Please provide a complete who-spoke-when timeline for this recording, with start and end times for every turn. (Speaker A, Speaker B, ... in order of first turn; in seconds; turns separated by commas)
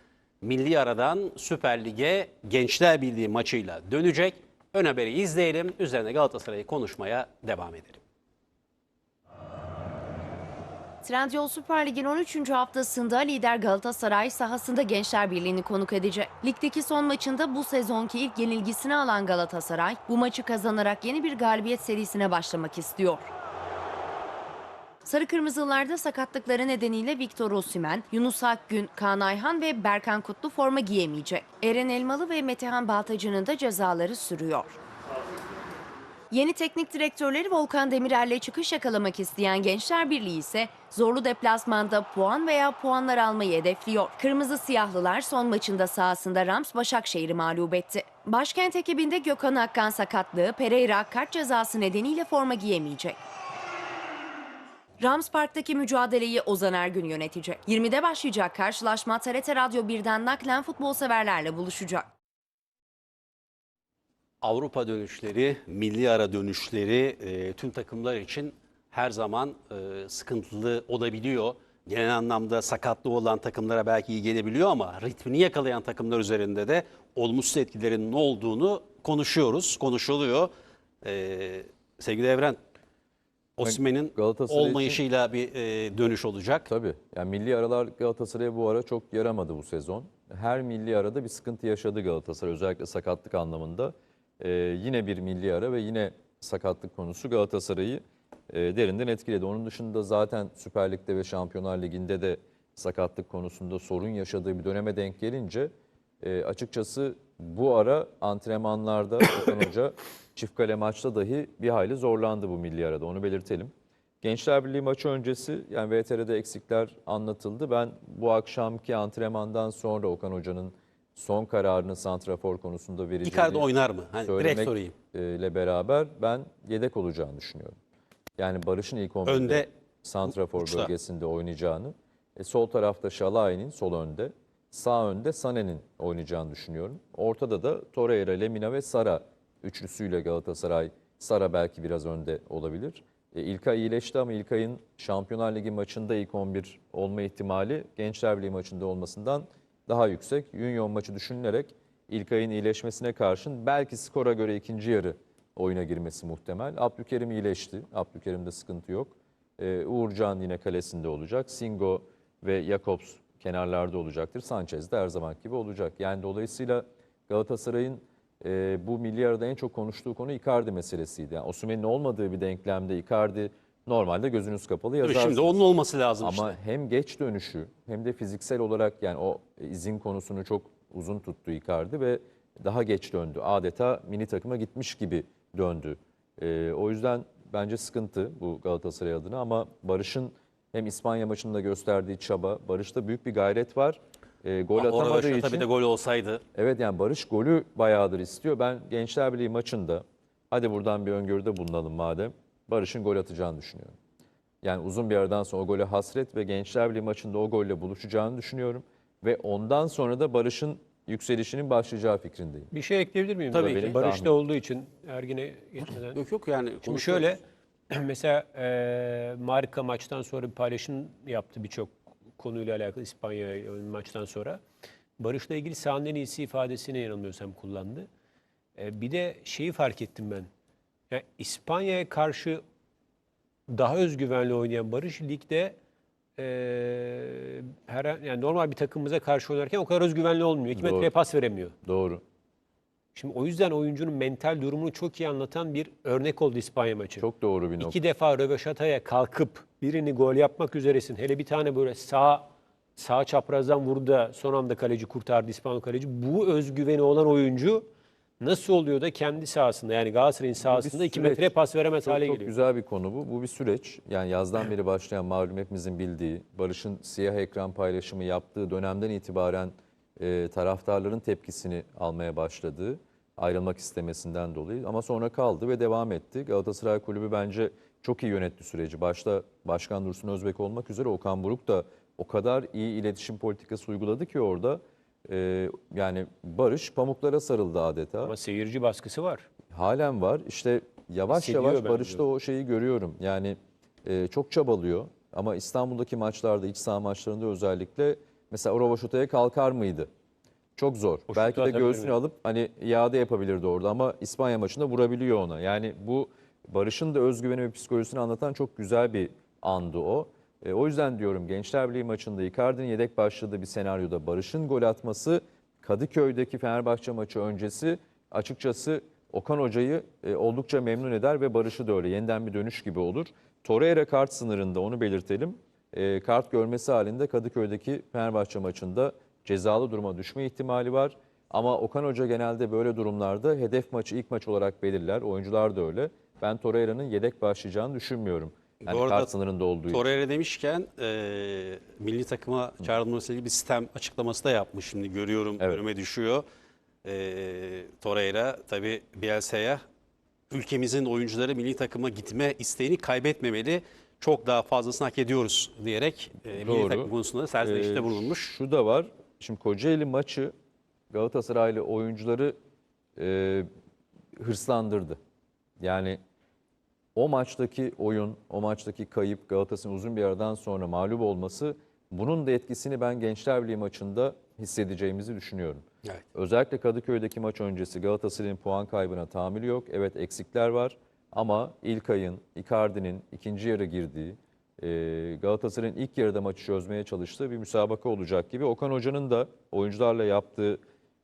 Speaker A: 0.4-8.0, Speaker B: 11.0-23.3, Speaker B: 25.0-34.8, Speaker B: 36.3-53.2, Speaker B: 55.0-62.1, Speaker A: 64.4-80.5, Speaker A: 81.0-82.6, Speaker A: 83.6-86.7, Speaker C: 83.6-85.0, Speaker C: 86.7-105.7, Speaker C: 106.2-123.7, Speaker A: 123.2-124.9, Speaker C: 124.2-127.8, Speaker C: 128.4-175.6, Speaker A: 129.2-129.7, Speaker A: 130.3-130.9, Speaker A: 175.0-176.6, Speaker C: 176.2-195.7, Speaker A: 194.7-196.4, Speaker C: 196.5-203.9, Speaker C: 204.6-212.7, Speaker D: 212.7-216.2, Speaker A: 213.5-214.0, Speaker C: 213.6-214.3, Speaker A: 216.1-217.3, Speaker D: 216.8-224.6, Speaker D: 225.2-228.1, Speaker D: 228.8-230.5, Speaker D: 231.1-232.6, Speaker D: 233.7-235.8, Speaker D: 236.4-241.7, Speaker C: 240.7-241.1, Speaker C: 241.8-242.2, Speaker D: 243.1-247.3, Speaker C: 247.2-248.0, Speaker D: 247.8-257.8, Speaker D: 258.4-262.5, Speaker C: 260.6-261.5, Speaker C: 262.0-288.3, Speaker D: 288.2-289.4, Speaker C: 289.7-300.1, Speaker D: 291.3-292.2, Speaker C: 300.8-340.1, Speaker D: 301.3-302.1, Speaker A: 338.9-339.3, Speaker A: 339.9-346.4, Speaker A: 347.0-349.8, Speaker A: 350.5-358.5, Speaker C: 356.5-357.1, Speaker C: 357.6-360.5, Speaker C: 361.1-362.5, Speaker C: 363.2-363.7, Speaker C: 364.4-365.2, Speaker C: 365.8-366.2, Speaker C: 367.1-390.8